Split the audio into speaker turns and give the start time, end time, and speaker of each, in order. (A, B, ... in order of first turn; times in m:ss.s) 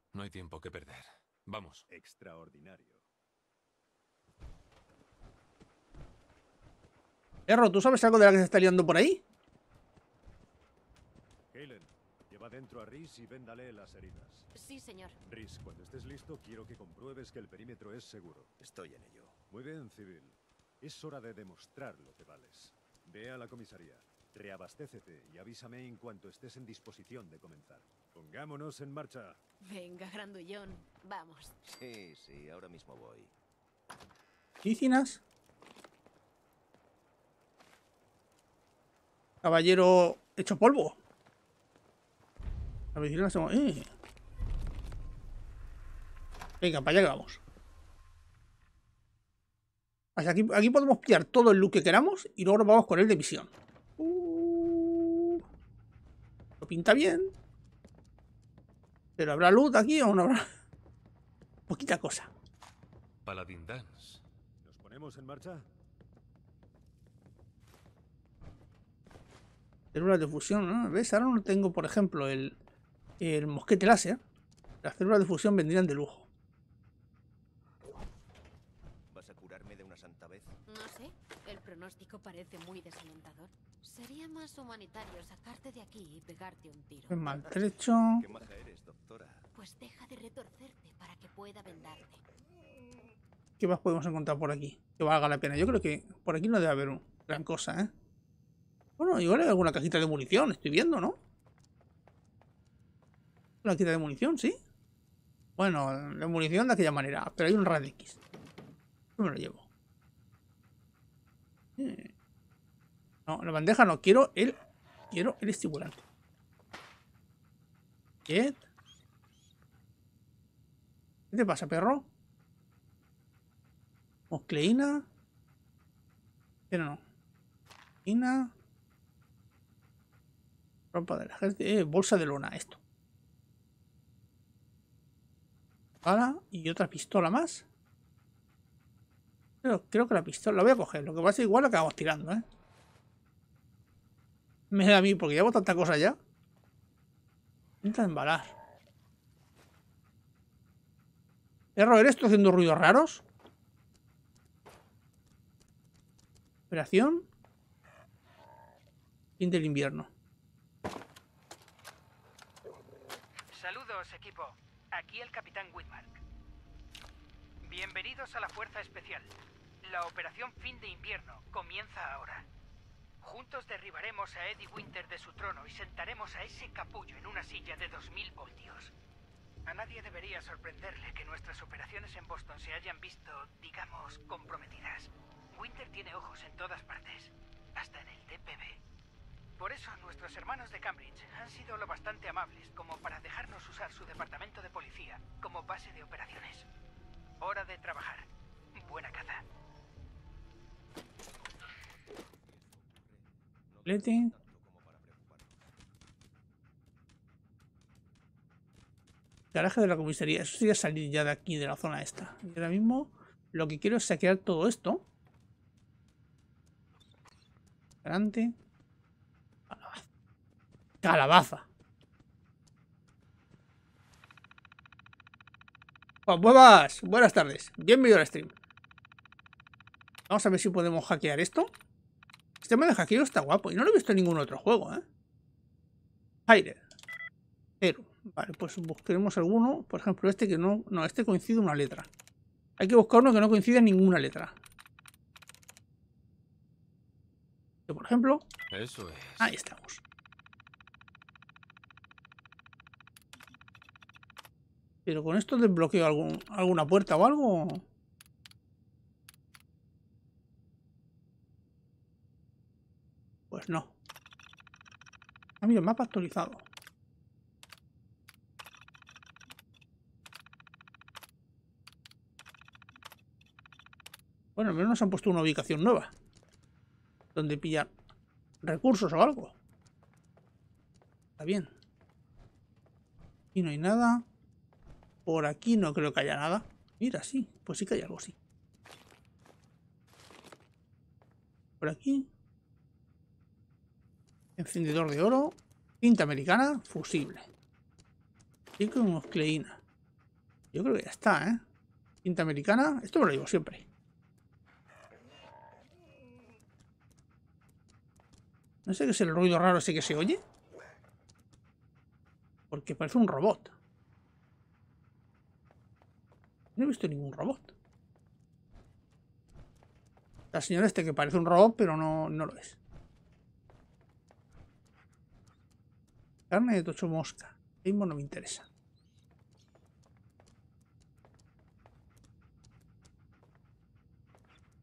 0:00.1-0:01.9 A
0:01.9-0:03.0 B
0:07.5-0:09.2 C
0:11.5-0:14.5 B
0:14.6-0:15.2 D
0:15.2-0:18.5 B
0:18.6-0:19.4 E
0:19.5-0:29.4 B
0:29.6-0:31.5 D
0:31.7-0:33.3 E
0:34.6-0:35.2 C
0:39.4-0:41.0 C
0:42.9-0:43.9 C
0:46.6-0:47.4 C
0:50.2-0:55.4 C
0:56.6-0:57.3 C
0:59.2-1:00.5 C
1:01.7-1:02.3 C
1:03.2-1:04.2 A
1:04.6-1:05.6 B
1:09.9-1:12.6 C
1:13.2-1:14.2 C
1:14.8-1:16.3 C
1:19.1-1:20.6 E
1:20.7-1:27.2 D
1:27.1-1:28.2 C
1:28.1-1:29.5 E
1:29.5-1:32.2 D
1:33.6-1:37.9 C
1:39.0-1:41.2 C
1:43.6-1:44.6 C
1:45.6-1:48.2 C
1:49.2-1:49.7 C
1:51.8-1:52.1 C
1:53.3-1:54.6 C
1:55.1-1:56.0 C
1:58.3-1:58.6 C
2:01.3-2:02.1 C
2:04.3-2:05.1 C
2:06.7-2:07.0 C
2:08.0-2:08.5 C
2:10.9-2:12.8 C
2:16.0-2:17.6 C
2:19.6-2:22.4 C
2:24.7-2:26.2 C
2:27.8-2:28.6 C
2:31.8-2:33.2 C
2:36.7-2:37.3 C
2:39.4-2:40.1 C
2:43.5-2:46.2 F
2:47.6-2:49.3 F
2:49.8-2:52.5 F
2:53.2-2:58.9 F
2:59.7-3:08.8 F
3:09.6-3:16.7 F
3:17.4-3:19.4 F
3:22.1-3:25.6 E
3:23.9-3:24.3 C
3:29.5-3:35.0 C
3:38.0-3:38.5 C
3:39.7-3:40.0 C
3:41.0-3:41.6 C
3:46.3-3:48.5 C
3:50.3-3:51.7 C
3:52.6-3:55.0 C
3:56.5-3:56.8 C
3:57.8-4:02.1 C
4:02.8-4:04.6 C
4:07.9-4:08.4 C
4:08.7-4:09.5 A
4:09.4-4:10.0 C
4:15.1-4:17.8 C
4:23.5-4:23.9 C
4:25.6-4:26.6 C
4:34.6-4:36.1 C
4:37.4-4:37.9 C
4:38.6-4:39.6 C
4:41.4-4:41.7 C
4:43.5-4:44.2 C
4:45.2-4:48.4 C
4:51.8-4:52.3 C
4:54.6-4:57.5 C
4:58.8-4:59.8 C
5:00.7-5:01.6 C
5:02.2-5:03.9 C
5:08.9-5:10.4 C
5:12.7-5:13.8 C
5:16.8-5:17.7 C
5:20.5-5:22.8 C
5:26.5-5:28.7 C